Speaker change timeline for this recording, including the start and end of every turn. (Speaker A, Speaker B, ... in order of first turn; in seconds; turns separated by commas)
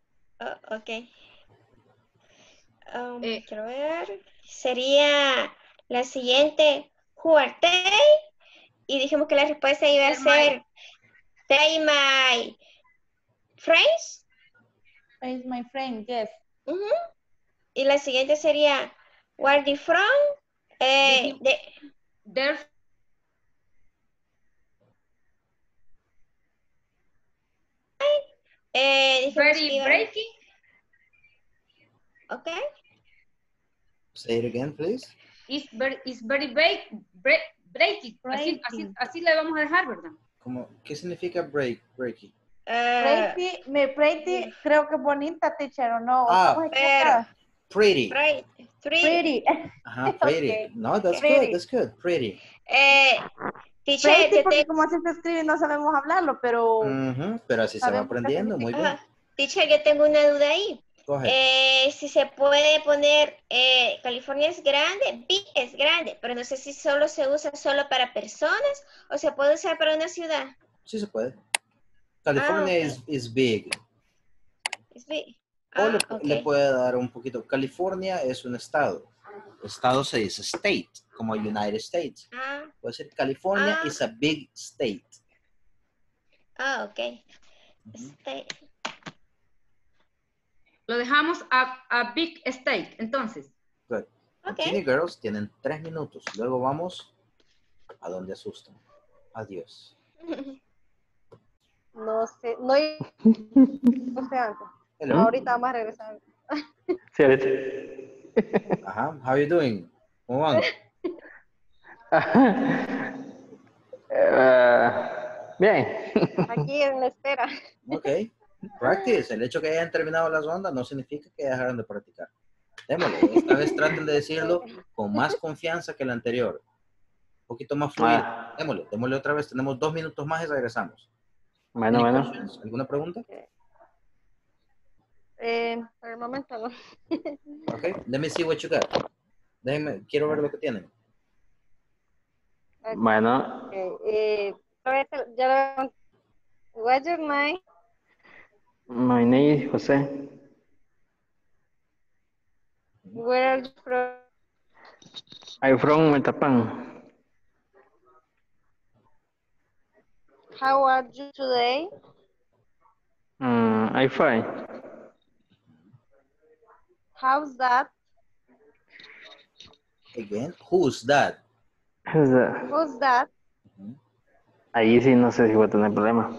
Speaker A: 0.4-1.1, Speaker A: 2.9-8.2, Speaker A: 8.9-10.6, Speaker B: 10.1-10.6, Speaker A: 11.5-12.6, Speaker A: 13.6-14.2, Speaker C: 15.2-16.4, Speaker A: 16.7-17.0, Speaker A: 17.8-20.2, Speaker A: 20.8-21.7, Speaker B: 21.0-21.4, Speaker B: 22.3-22.7, Speaker A: 28.0-30.1, Speaker B: 29.3-30.3, Speaker A: 32.3-32.6, Speaker D: 34.1-35.1, Speaker B: 35.5-40.2, Speaker C: 38.2-38.9, Speaker D: 40.4-42.3, Speaker A: 42.7-43.4, Speaker C: 43.0-47.2, Speaker A: 44.2-44.5, Speaker D: 46.3-46.6, Speaker A: 46.7-47.2, Speaker D: 47.7-48.2, Speaker A: 48.1-49.3, Speaker C: 49.0-49.4, Speaker D: 49.9-52.4, Speaker C: 50.1-50.7, Speaker C: 51.2-51.6, Speaker A: 52.7-53.3, Speaker A: 53.9-54.7, Speaker C: 54.0-57.0, Speaker D: 56.8-58.9, Speaker C: 57.8-58.9, Speaker A: 58.7-70.5, Speaker D: 61.1-61.4, Speaker D: 70.9-71.4, Speaker D: 72.2-73.8, Speaker A: 72.4-73.0, Speaker A: 74.9-76.5, Speaker D: 75.8-79.1, Speaker D: 79.6-82.3, Speaker A: 82.3-82.7, Speaker D: 82.8-85.2, Speaker A: 83.5-84.0, Speaker A: 86.6-87.2, Speaker A: 88.0-88.5, Speaker B: 90.9-93.5, Speaker D: 93.9-97.1, Speaker A: 94.5-94.8, Speaker D: 98.0-98.8, Speaker D: 99.3-99.9, Speaker A: 100.3-100.6, Speaker E: 102.0-103.0, Speaker E: 104.2-106.2, Speaker D: 105.0-105.3, Speaker F: 107.1-107.8, Speaker F: 108.4-108.7, Speaker D: 108.8-110.6, Speaker F: 112.1-113.0, Speaker F: 114.1-116.7, Speaker E: 116.5-117.5, Speaker D: 117.9-122.3, Speaker D: 122.9-126.6, Speaker E: 124.3-125.3, Speaker D: 127.5-131.1, Speaker F: 128.0-128.3, Speaker F: 131.8-132.3, Speaker D: 131.9-133.2, Speaker E: 135.4-136.7, Speaker D: 137.7-138.9, Speaker D: 139.6-140.9, Speaker F: 142.9-143.7, Speaker E: 143.7-145.9, Speaker E: 146.8-147.6, Speaker F: 148.9-150.0, Speaker E: 153.2-154.2, Speaker F: 155.6-156.7, Speaker E: 160.6-161.9, Speaker F: 163.4-164.4, Speaker E: 167.2-167.9, Speaker D: 170.2-171.4, Speaker F: 172.1-172.7, Speaker E: 172.7-173.3, Speaker D: 173.7-174.0, Speaker F: 174.8-176.3